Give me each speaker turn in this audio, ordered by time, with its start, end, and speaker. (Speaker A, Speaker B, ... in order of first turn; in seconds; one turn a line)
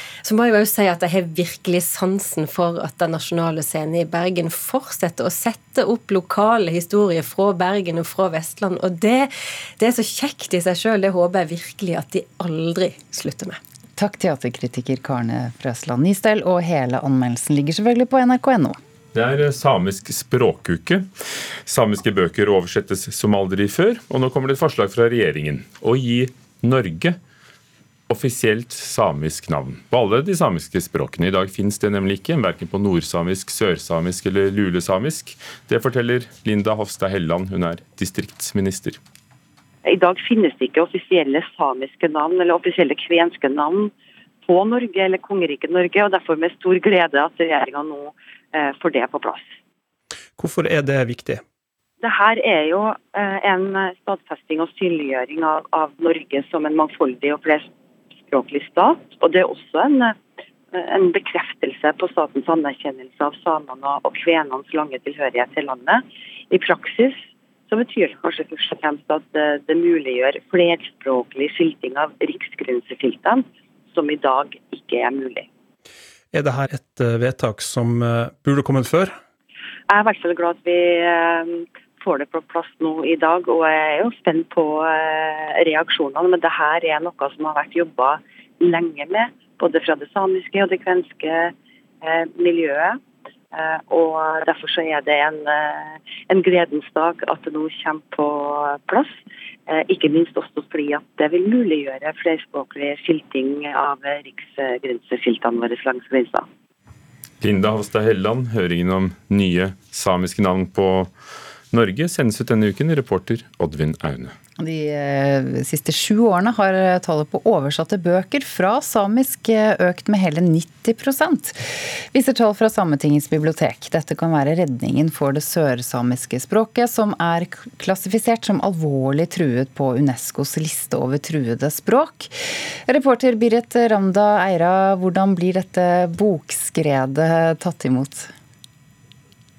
Speaker A: 0.2-13.6
Speaker B: 14.0-18.8
Speaker C: 19.1-21.1
Speaker C: 21.6-27.2
Speaker C: 28.1-39.0
Speaker D: 39.8-49.5
Speaker E: 50.4-51.4
Speaker D: 52.0-57.7
Speaker D: 58.2-60.1
Speaker D: 60.7-75.5
Speaker E: 76.3-79.2
Speaker D: 79.9-93.0
Speaker D: 93.5-106.5
Speaker C: 107.4-111.1
Speaker C: 111.7-114.3
Speaker B: 114.6-138.3